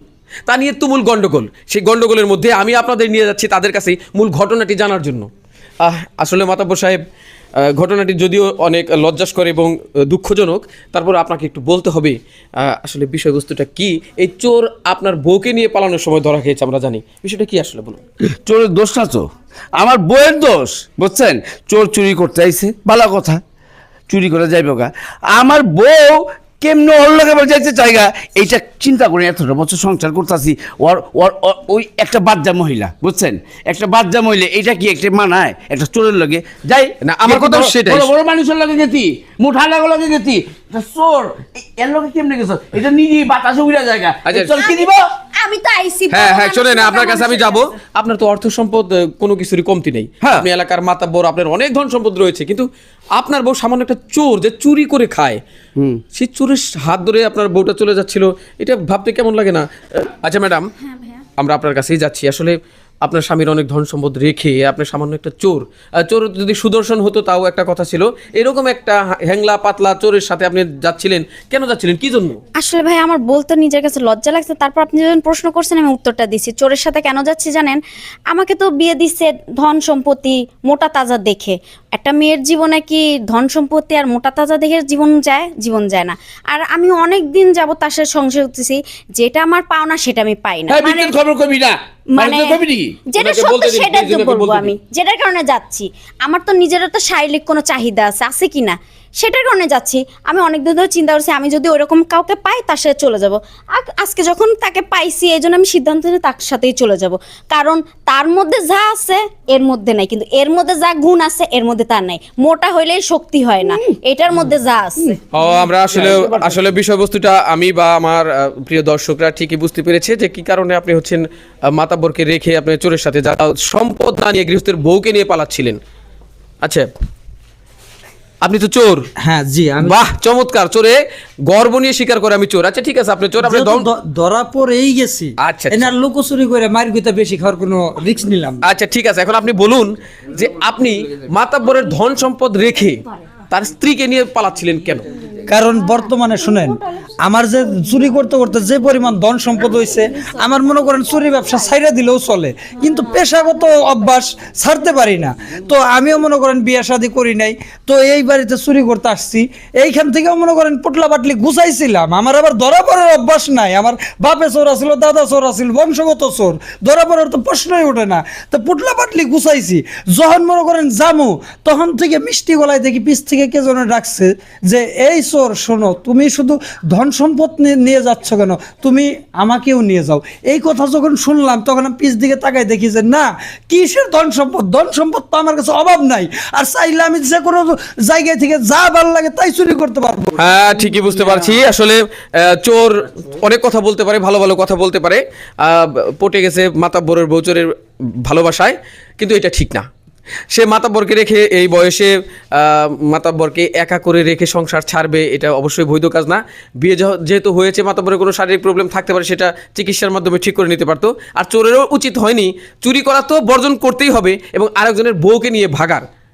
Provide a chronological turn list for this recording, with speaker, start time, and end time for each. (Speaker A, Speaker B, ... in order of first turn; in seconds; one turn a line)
Speaker A: 0.5-5.3
Speaker A: 5.8-7.0
Speaker A: 7.6-18.0
Speaker B: 18.3-19.3
Speaker B: 19.8-23.4
Speaker B: 24.1-45.0
Speaker A: 37.0-38.1
Speaker A: 44.2-44.5
Speaker C: 44.5-47.6
Speaker A: 46.1-55.4
Speaker A: 56.1-60.7
Speaker A: 61.4-72.4
Speaker C: 72.6-91.1
Speaker B: 90.7-93.0
Speaker C: 92.2-92.5
Speaker C: 93.1-115.2
Speaker A: 93.2-94.7
Speaker A: 115.3-125.8
Speaker B: 115.9-116.5
Speaker A: 128.4-129.1
Speaker D: 129.2-130.0
Speaker A: 129.8-133.9
Speaker D: 133.4-138.6
Speaker A: 135.4-135.9
Speaker A: 138.6-145.0
Speaker D: 145.5-191.5
Speaker C: 145.7-147.1
Speaker C: 147.6-148.3
Speaker C: 149.7-151.7
Speaker C: 152.8-154.0
Speaker A: 190.4-199.8
Speaker A: 200.5-216.0